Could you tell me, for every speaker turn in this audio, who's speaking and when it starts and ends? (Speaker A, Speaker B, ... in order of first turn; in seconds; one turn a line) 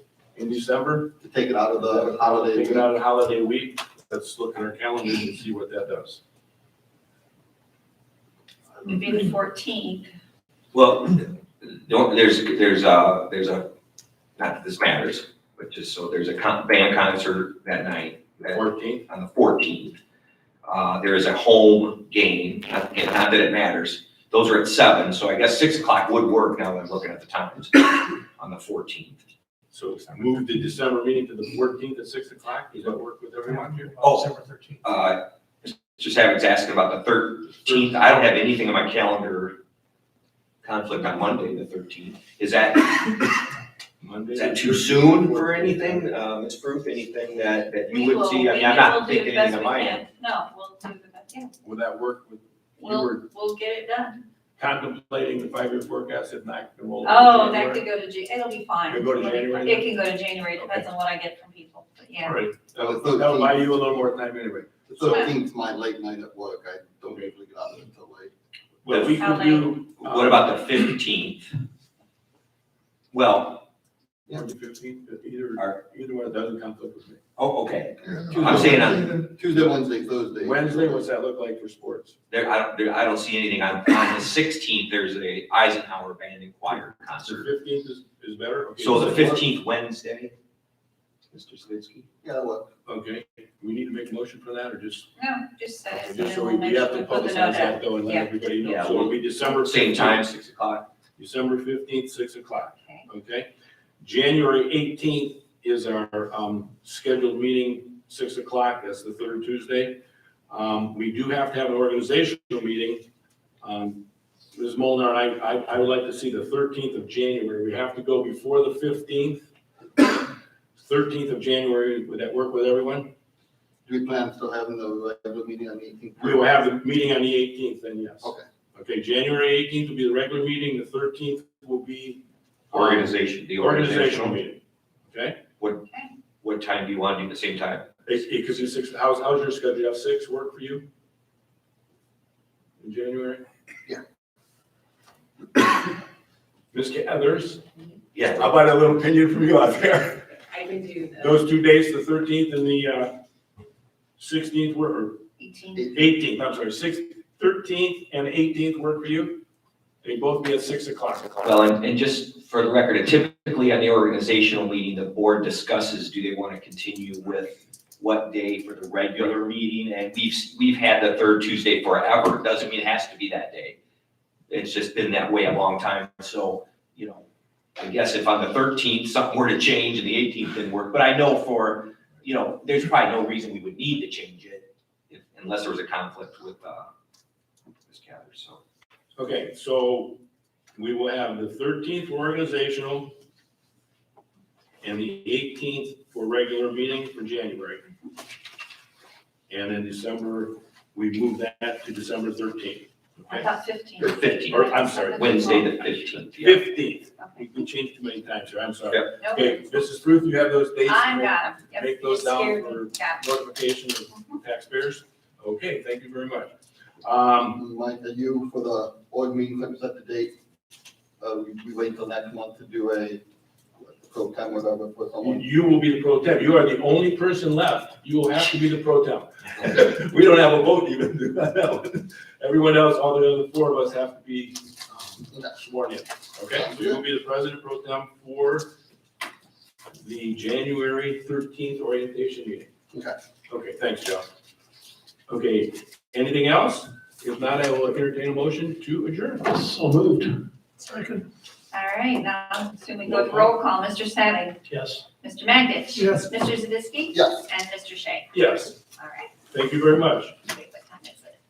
Speaker A: 0.3-1.2
Speaker B: 1.2-2.9
Speaker A: 1.8-6.2
Speaker C: 8.8-10.1
Speaker D: 10.7-13.7
Speaker D: 14.4-20.0
Speaker A: 18.5-19.1
Speaker D: 20.6-29.2
Speaker A: 29.7-34.1
Speaker D: 34.0-39.6
Speaker E: 34.2-34.8
Speaker A: 37.6-38.3
Speaker D: 40.6-43.5
Speaker A: 44.0-46.1
Speaker D: 44.3-50.0
Speaker C: 47.9-51.5
Speaker A: 51.6-53.2
Speaker C: 52.8-54.2
Speaker A: 54.6-57.8
Speaker C: 57.0-62.5
Speaker A: 58.9-60.0
Speaker A: 60.6-60.9
Speaker A: 62.2-64.7
Speaker B: 62.8-63.7
Speaker B: 64.9-68.3
Speaker C: 65.0-65.3
Speaker A: 68.8-70.6
Speaker D: 68.9-71.5
Speaker C: 69.2-69.8
Speaker D: 73.1-73.7
Speaker A: 74.3-77.2
Speaker D: 77.4-79.1
Speaker B: 78.0-81.0
Speaker A: 80.4-82.1
Speaker D: 82.3-87.5
Speaker A: 86.7-89.4
Speaker D: 88.8-90.3
Speaker B: 89.0-89.4
Speaker D: 91.3-92.1
Speaker B: 92.2-92.7
Speaker A: 92.9-95.1
Speaker C: 95.2-98.3
Speaker A: 95.9-100.2
Speaker D: 98.6-100.9
Speaker A: 101.2-103.5
Speaker C: 102.8-103.1
Speaker A: 104.0-113.0
Speaker A: 113.6-119.5
Speaker A: 120.8-123.1
Speaker B: 123.8-126.5
Speaker A: 126.2-135.4
Speaker D: 132.7-134.4
Speaker D: 135.6-135.8
Speaker D: 136.4-137.9
Speaker A: 138.1-140.8
Speaker A: 142.8-143.4
Speaker A: 146.7-147.6
Speaker D: 148.1-148.5
Speaker A: 148.4-150.3
Speaker A: 151.2-153.2
Speaker A: 154.2-155.2
Speaker C: 155.4-155.9
Speaker A: 155.9-159.4
Speaker A: 160.0-161.5
Speaker D: 161.4-173.8
Speaker D: 174.5-177.2
Speaker D: 177.8-186.9
Speaker D: 187.9-188.6
Speaker A: 189.2-190.2
Speaker A: 190.8-193.1
Speaker A: 194.8-197.8
Speaker A: 199.5-203.5
Speaker C: 203.3-205.8
Speaker D: 204.0-206.6
Speaker A: 204.5-205.7
Speaker A: 206.4-216.5
Speaker C: 209.2-209.8
Speaker C: 210.8-213.2
Speaker A: 217.0-217.6
Speaker B: 217.5-220.4
Speaker B: 221.2-223.2
Speaker B: 223.8-225.5
Speaker A: 225.2-238.7
Speaker B: 236.6-237.0
Speaker A: 240.0-242.7
Speaker A: 243.5-244.3
Speaker A: 245.3-249.5
Speaker E: 249.5-251.2
Speaker C: 251.7-254.6
Speaker A: 253.1-253.5
Speaker E: 254.7-255.0
Speaker C: 255.2-258.4
Speaker E: 256.0-256.2
Speaker B: 257.1-257.4
Speaker A: 258.3-258.8
Speaker C: 259.0-259.3
Speaker A: 259.5-260.4
Speaker C: 260.4-261.4